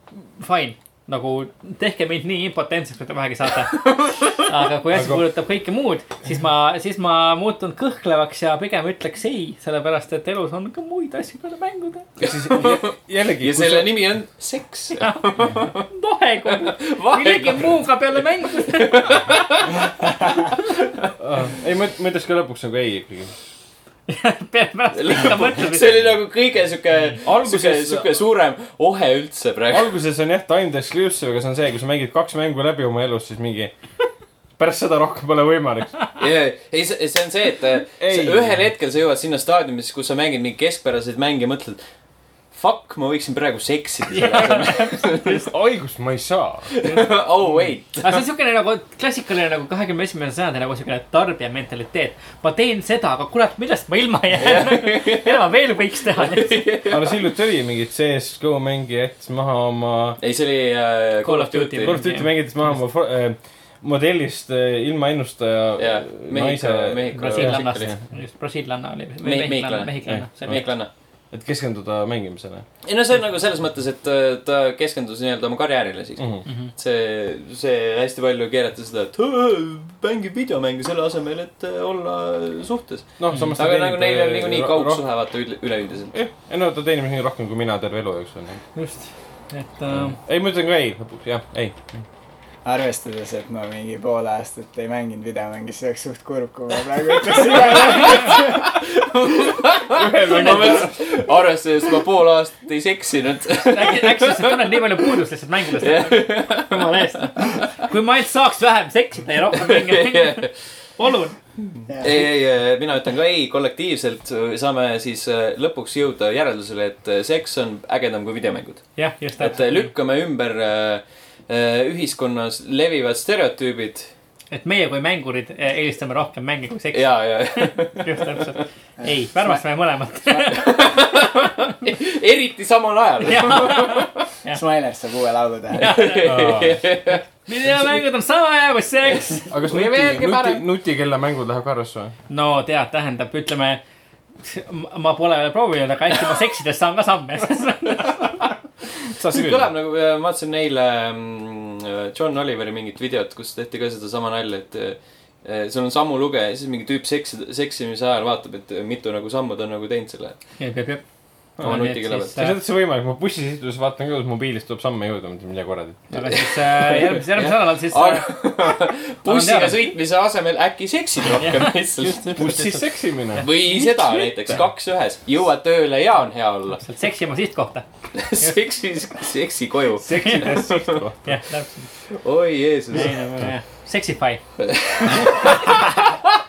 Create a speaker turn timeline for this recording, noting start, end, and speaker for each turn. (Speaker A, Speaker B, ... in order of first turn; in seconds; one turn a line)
Speaker A: 0.4-12.1
Speaker B: 3.7-4.3
Speaker C: 4.9-5.2
Speaker C: 12.2-13.9
Speaker B: 12.2-15.9
Speaker A: 15.0-19.0
Speaker B: 16.4-21.1
Speaker C: 21.2-23.3
Speaker A: 24.1-26.1
Speaker B: 24.9-29.9
Speaker C: 27.2-28.1
Speaker C: 29.7-33.7
Speaker C: 34.6-36.0
Speaker B: 36.2-41.8
Speaker C: 38.0-38.6
Speaker B: 42.5-45.5
Speaker A: 44.1-45.4
Speaker C: 45.2-46.7
Speaker B: 46.7-48.2
Speaker A: 48.0-56.6
Speaker B: 54.4-55.4
Speaker B: 56.1-57.2
Speaker C: 56.9-60.2
Speaker B: 60.2-62.0
Speaker A: 61.2-62.8
Speaker C: 61.8-68.0
Speaker B: 65.8-67.9
Speaker A: 67.1-70.7
Speaker B: 69.2-70.9
Speaker C: 70.0-72.7
Speaker B: 72.8-86.2
Speaker C: 76.2-76.4
Speaker A: 76.5-76.7
Speaker C: 83.2-85.0
Speaker A: 83.3-83.5
Speaker C: 86.1-88.6
Speaker A: 88.7-90.2
Speaker C: 89.9-92.0
Speaker D: 92.6-98.8
Speaker B: 97.3-105.1
Speaker A: 97.8-98.3
Speaker C: 99.9-100.9
Speaker A: 103.7-111.4
Speaker B: 105.8-107.6
Speaker B: 109.6-110.5
Speaker D: 111.9-112.2
Speaker B: 112.0-124.1
Speaker A: 119.0-119.9
Speaker A: 124.5-130.8
Speaker B: 126.9-128.6
Speaker D: 129.0-129.6
Speaker D: 130.3-130.7
Speaker B: 130.5-134.2
Speaker A: 133.2-134.6
Speaker D: 134.4-136.1
Speaker A: 135.7-136.6
Speaker B: 135.8-137.2
Speaker C: 136.2-136.8
Speaker A: 137.4-139.5
Speaker C: 139.5-142.1
Speaker B: 139.7-140.6
Speaker A: 142.3-143.8
Speaker A: 144.4-148.3
Speaker C: 149.1-149.7
Speaker B: 149.3-160.4
Speaker A: 160.6-161.0
Speaker B: 161.6-162.5
Speaker A: 161.6-162.6
Speaker C: 162.3-166.1
Speaker A: 166.1-168.2
Speaker B: 166.2-172.5
Speaker A: 169.2-169.8
Speaker A: 171.4-174.3
Speaker C: 172.3-173.4
Speaker B: 173.4-176.8
Speaker A: 176.8-177.8
Speaker B: 178.1-181.1
Speaker A: 180.0-180.7
Speaker C: 180.2-181.3
Speaker A: 181.2-181.9
Speaker B: 182.1-183.2
Speaker A: 182.9-184.4
Speaker B: 184.6-186.1